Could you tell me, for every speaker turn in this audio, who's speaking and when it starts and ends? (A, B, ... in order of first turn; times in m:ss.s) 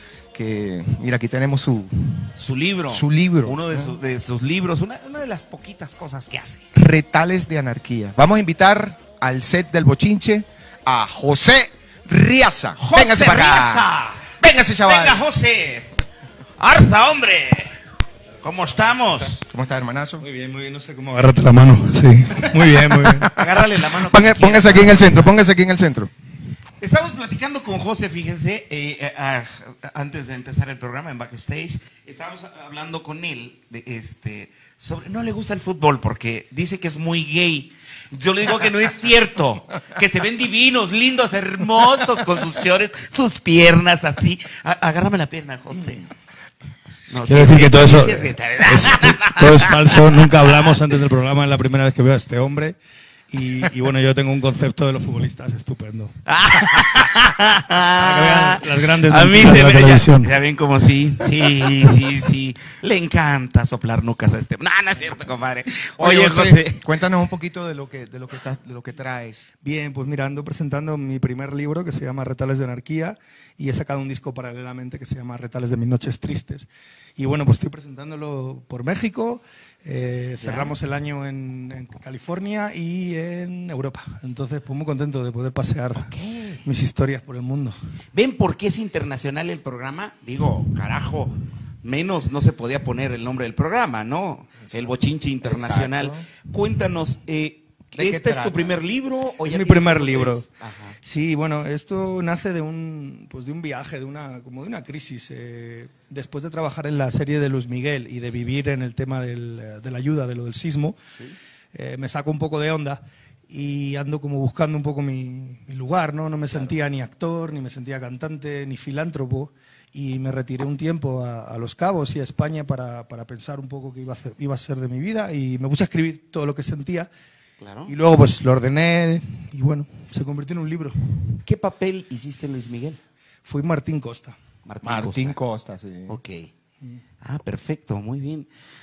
0:00.3-0:02.3 A
0:02.4-0:06.6 B
0:02.9-0:04.0 A
0:06.7-0:13.8 A
0:12.8-0:15.9 B
0:14.4-0:15.3 A
0:16.6-0:17.7 B
0:18.4-0:19.4 B
0:19.5-0:20.2 A
0:20.2-0:23.3 C
0:22.8-0:26.1 A
0:23.3-0:25.3 B
0:26.8-0:46.1 B
0:47.1-0:50.1 B
0:47.3-0:52.8 C
0:53.3-0:56.2 C
0:56.3-1:06.9 B
0:58.0-1:00.4 C
1:06.0-1:09.5 A
1:09.6-1:26.1 C
1:20.4-1:20.8 B
1:26.0-1:26.7 B
1:26.6-1:27.8 C
1:28.1-1:41.0 B
1:34.7-1:36.2 A
1:38.0-1:38.8 A
1:39.4-1:40.5 C
1:41.0-1:51.0 C
1:51.7-2:07.1 C
2:07.6-2:07.9 B
2:07.9-2:10.9 C
2:11.4-2:13.0 B
2:13.4-2:14.4 C
2:14.6-2:15.4 B
2:14.8-2:16.2 A
2:16.1-2:16.5 B
2:17.2-2:18.5 B